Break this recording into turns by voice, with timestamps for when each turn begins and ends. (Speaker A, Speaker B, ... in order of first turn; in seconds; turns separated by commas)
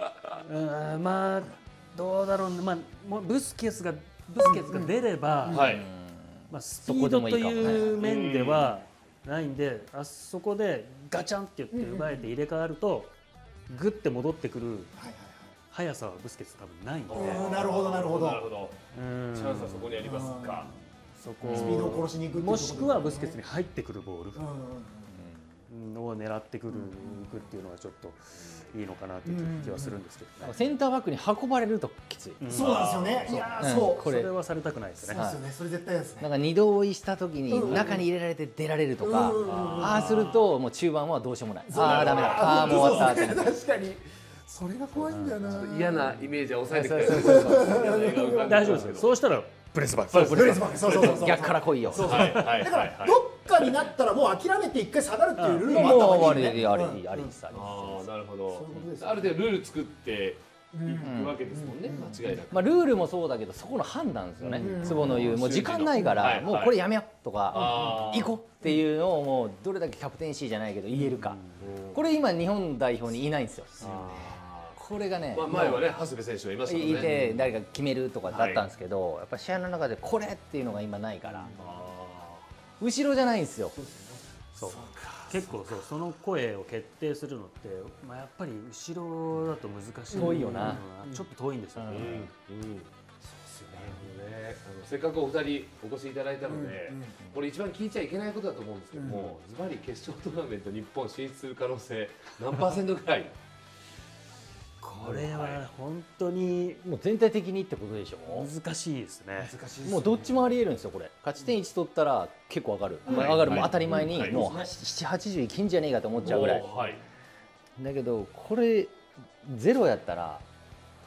Speaker A: 0.4-5.7, Speaker B: 4.4-4.9, Speaker C: 5.5-5.9, Speaker D: 5.6-8.0, Speaker A: 6.5-13.1, Speaker C: 7.7-8.7, Speaker B: 11.7-12.3, Speaker A: 13.7-14.9, Speaker B: 14.9-15.5, Speaker A: 15.7-17.5, Speaker C: 17.1-18.8, Speaker B: 17.1-18.4, Speaker A: 18.9-24.4, Speaker C: 19.3-20.7, Speaker B: 20.0-20.6, Speaker B: 21.5-23.4, Speaker D: 21.5-21.8, Speaker B: 24.3-25.1, Speaker A: 25.7-30.6, Speaker B: 26.7-27.3, Speaker B: 29.2-30.0, Speaker D: 30.4-32.4, Speaker A: 32.4-35.2, Speaker B: 32.5-34.1, Speaker C: 32.5-33.4, Speaker D: 33.3-34.3, Speaker B: 35.0-36.3, Speaker D: 35.1-35.4, Speaker D: 36.2-43.5, Speaker B: 37.5-38.0, Speaker B: 39.0-40.3, Speaker C: 39.4-40.3, Speaker B: 41.7-46.1, Speaker C: 41.7-43.3, Speaker A: 45.0-45.5, Speaker C: 45.5-49.1, Speaker D: 46.7-47.6, Speaker B: 46.9-48.9, Speaker A: 48.4-50.9, Speaker C: 50.1-51.4, Speaker B: 50.1-57.3, Speaker D: 51.0-52.5, Speaker C: 52.0-53.9, Speaker A: 55.4-55.7, Speaker C: 55.6-56.5, Speaker D: 55.7-58.1, Speaker C: 57.5-62.8, Speaker B: 58.5-59.4, Speaker B: 60.7-62.2, Speaker D: 61.0-61.4, Speaker D: 62.3-71.4, Speaker C: 64.4-66.8, Speaker B: 64.6-65.3, Speaker B: 65.9-66.2, Speaker C: 67.5-68.4, Speaker B: 67.6-67.9, Speaker A: 71.1-71.6, Speaker C: 71.6-72.0, Speaker D: 71.9-75.9, Speaker C: 73.8-74.8, Speaker C: 75.3-77.4, Speaker D: 76.7-81.5, Speaker C: 78.3-78.7, Speaker A: 81.2-81.5, Speaker C: 81.5-82.5, Speaker D: 82.8-83.7, Speaker C: 83.8-86.1, Speaker A: 84.5-92.0, Speaker D: 90.1-90.8, Speaker B: 90.1-91.2, Speaker D: 91.8-92.3, Speaker C: 91.9-92.9, Speaker C: 93.5-103.3, Speaker B: 93.6-93.9, Speaker B: 96.5-97.1, Speaker B: 98.9-99.3, Speaker A: 104.8-106.8, Speaker C: 105.0-105.6, Speaker D: 106.8-108.5, Speaker A: 108.2-109.5, Speaker B: 109.4-110.4, Speaker D: 109.8-116.7, Speaker B: 113.0-114.7, Speaker C: 113.1-114.4, Speaker C: 116.2-117.0, Speaker B: 116.3-116.6, Speaker D: 117.8-120.4